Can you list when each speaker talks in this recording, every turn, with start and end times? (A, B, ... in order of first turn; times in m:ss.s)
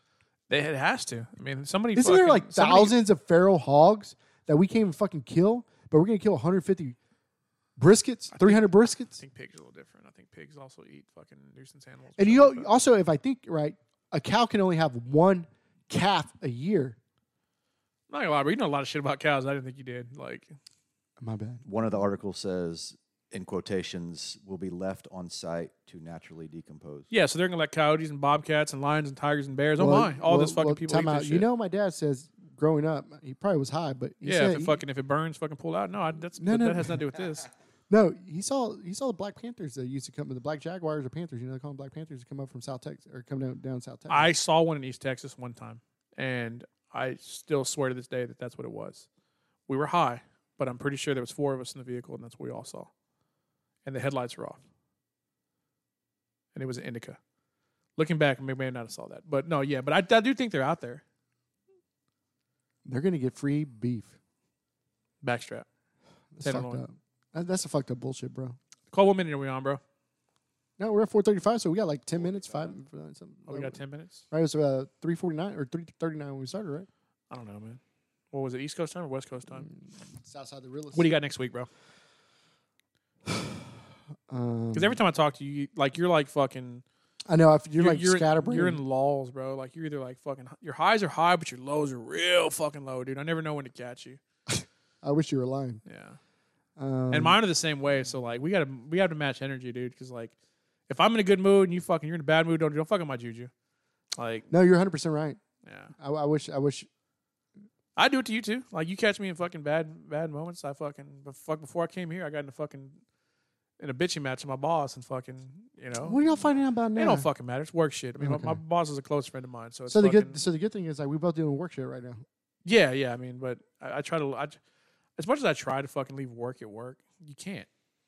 0:00.5-0:03.0 A
0:02.0-0:07.0 B
0:07.8-0:09.2 B
0:08.3-0:12.8 A
0:12.2-0:17.0 B
0:18.1-0:20.5 A
0:21.2-0:21.6 B
0:21.6-0:27.1 C
0:27.1-0:31.5 A
0:29.8-0:34.8 B
0:34.2-0:37.5 A
0:36.4-0:37.0 B
0:37.9-0:44.3 B
0:44.1-0:49.1 A
0:49.7-0:52.9 A
0:53.8-0:54.6 A
0:56.5-0:57.2 A
0:58.0-1:01.0 A
1:02.8-1:04.2 B
1:05.2-1:05.7 A
1:06.3-1:08.6 B
1:06.4-1:06.8 A
1:08.9-1:09.8 A
1:10.8-1:13.8 B
1:13.5-1:14.2 A
1:14.3-1:16.9 B
1:17.3-1:17.8 A
1:18.3-1:19.7 A
1:19.5-1:21.1 B
1:20.9-1:21.7 A
1:23.3-1:23.6 B
1:24.3-1:25.0 B
1:24.7-1:26.8 A
1:27.3-1:28.8 B
1:27.8-1:34.2 A
1:34.5-1:35.8 B
1:35.8-1:36.2 A
1:36.8-1:37.4 B
1:37.1-1:40.3 A
1:40.9-1:43.5 A
1:44.2-1:44.5 A
1:44.5-1:45.4 B
1:45.6-1:45.9 A
1:46.0-1:46.9 B
1:48.0-1:53.0 A
1:53.8-1:56.2 A
1:56.0-1:57.3 B
1:57.0-2:00.4 A
1:58.2-1:58.6 B
1:59.9-2:02.2 B
2:02.6-2:04.6 A
2:05.2-2:07.7 A